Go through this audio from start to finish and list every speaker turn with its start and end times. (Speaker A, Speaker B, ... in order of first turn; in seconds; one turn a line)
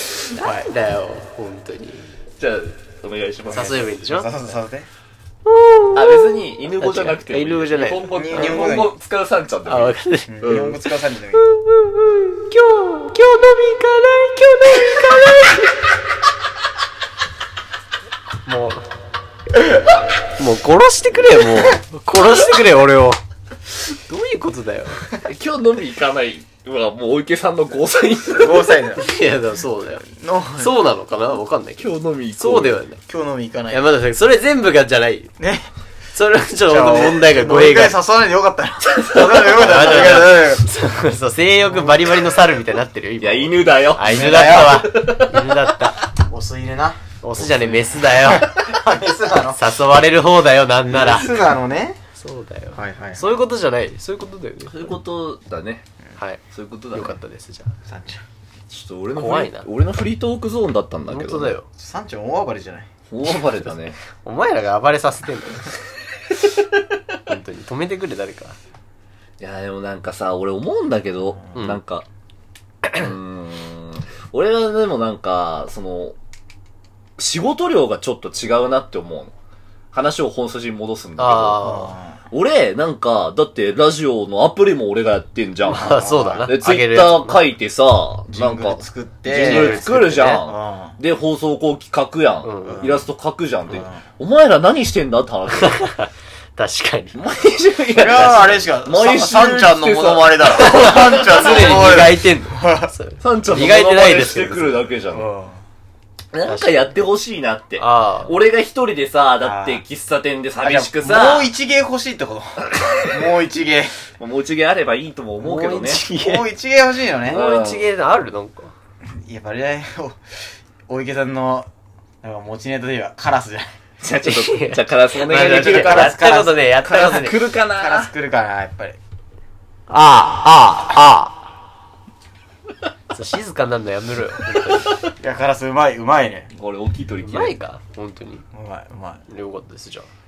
Speaker A: 0.3-2.1
Speaker B: 0.4-0.7
Speaker C: 2.4-3.9
Speaker A: 3.5-4.3
Speaker B: 3.5-4.9
Speaker A: 5.5-8.7
Speaker C: 5.9-10.8
Speaker B: 8.1-8.9
Speaker A: 9.7-10.5
Speaker B: 10.3-11.5
Speaker A: 11.5-15.9
Speaker A: 18.4-18.9
Speaker A: 20.4-23.2
Speaker A: 23.9-25.0
Speaker C: 25.2-28.7
Speaker B: 28.3-29.1
Speaker A: 29.0-30.1
Speaker B: 30.1-30.8
Speaker A: 30.6-33.0
Speaker C: 31.8-32.8
Speaker B: 33.1-33.9
Speaker A: 33.7-35.3
Speaker B: 35.4-35.7
Speaker A: 36.1-38.0
Speaker B: 36.7-40.7
Speaker A: 39.0-46.0
Speaker B: 41.7-42.0
Speaker C: 43.2-45.9
Speaker B: 44.0-44.9
Speaker B: 46.2-47.0
Speaker A: 47.2-48.6
Speaker C: 47.4-47.9
Speaker B: 48.2-49.6
Speaker A: 49.5-51.4
Speaker B: 50.9-52.0
Speaker A: 52.2-55.0
Speaker B: 52.8-53.3
Speaker C: 54.7-55.9
Speaker C: 56.5-57.2
Speaker A: 56.9-57.8
Speaker B: 57.9-58.2
Speaker C: 58.7-61.5
Speaker A: 59.2-59.7
Speaker A: 61.1-61.7
Speaker B: 61.8-62.9
Speaker C: 63.1-64.0
Speaker A: 63.6-65.7
Speaker A: 67.3-68.6
Speaker C: 69.4-72.0
Speaker C: 72.9-76.2
Speaker C: 77.2-79.3
Speaker C: 79.9-95.8
Speaker A: 81.2-82.0
Speaker B: 81.6-82.2
Speaker A: 85.7-87.4
Speaker B: 85.7-86.5
Speaker B: 88.3-91.0
Speaker A: 89.3-90.4
Speaker A: 92.4-92.9
Speaker B: 92.7-93.0
Speaker B: 93.7-94.0
Speaker A: 95.6-97.2
Speaker C: 97.2-102.1
Speaker B: 98.0-102.9
Speaker A: 100.5-104.8
Speaker C: 103.2-105.3
Speaker B: 105.1-105.6
Speaker C: 106.3-111.5
Speaker A: 106.5-107.0
Speaker A: 107.8-108.3
Speaker B: 109.4-109.8
Speaker B: 110.6-114.0
Speaker C: 112.7-113.1
Speaker C: 114.1-116.0
Speaker A: 115.4-116.5
Speaker B: 116.1-117.4
Speaker C: 117.3-117.9
Speaker A: 117.3-118.7
Speaker B: 119.2-120.2
Speaker B: 120.9-121.7
Speaker B: 122.2-123.7
Speaker C: 124.0-126.2
Speaker A: 124.2-127.4
Speaker B: 125.3-129.0
Speaker C: 126.8-128.1
Speaker A: 129.9-131.3
Speaker A: 133.1-135.0
Speaker B: 135.2-136.5
Speaker C: 136.5-137.6
Speaker A: 137.2-138.4
Speaker B: 138.5-139.2
Speaker A: 139.3-140.1